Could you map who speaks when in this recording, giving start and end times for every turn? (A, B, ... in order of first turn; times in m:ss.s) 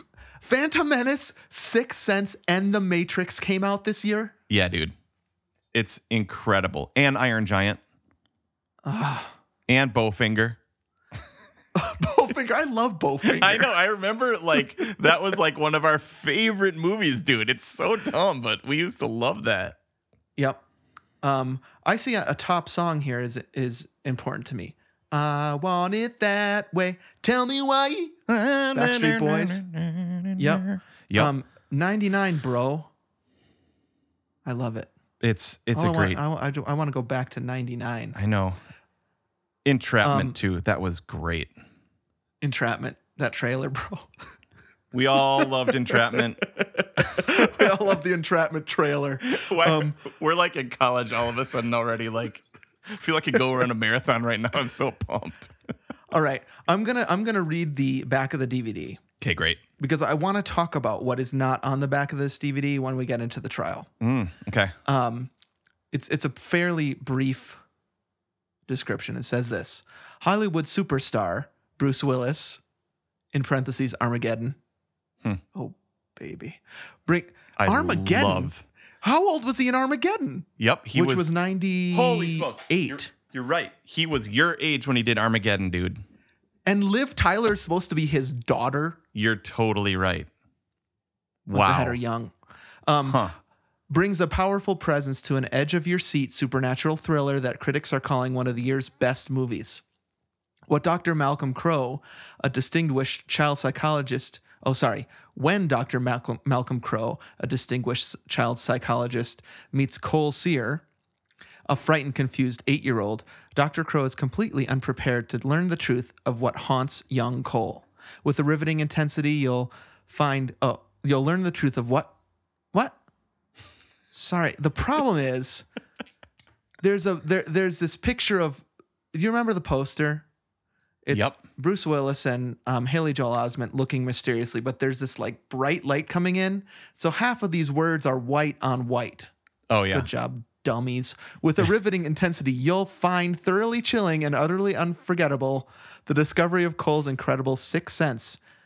0:00.4-0:04.3 A
0:04.5-0:04.9 B
0:05.7-0:07.8 B
0:08.8-0:09.3 A
0:09.7-0:10.6 B
0:11.7-0:13.7 A
0:13.2-0:19.8 B
0:21.2-0:28.2 A
0:28.3-0:31.3 B
0:28.7-0:29.6 A
0:30.4-0:32.9 A
0:34.4-0:34.9 A
0:35.2-0:36.2 B
0:35.7-0:38.2 A
0:38.1-0:38.6 B
0:39.6-0:41.5 B
0:40.0-0:40.4 A
0:42.4-0:44.1 A
0:44.9-0:46.4 B
0:46.4-0:50.0 A
0:47.0-0:47.6 B
0:49.3-0:55.5 B
0:56.1-0:59.0 A
0:59.2-0:59.6 B
0:59.8-1:03.9 A
1:04.0-1:04.7 B
1:04.8-1:05.3 A
1:05.9-1:07.6 A
1:08.7-1:12.6 A
1:13.3-1:14.6 A
1:15.5-1:23.1 A
1:17.6-1:18.6 B
1:20.6-1:21.3 B
1:21.9-1:26.0 B
1:26.6-1:29.0 A
1:29.1-1:30.3 B
1:31.4-1:32.0 B
1:31.5-1:32.3 A
1:32.9-1:33.2 A
1:33.0-1:33.4 B
1:33.9-1:39.8 A
1:40.7-1:50.8 A
1:51.7-2:02.1 A
2:04.1-2:05.6 A
2:06.8-2:10.2 A
2:11.0-2:19.3 A
2:11.1-2:11.4 B
2:19.7-2:20.1 B
2:19.9-2:28.4 A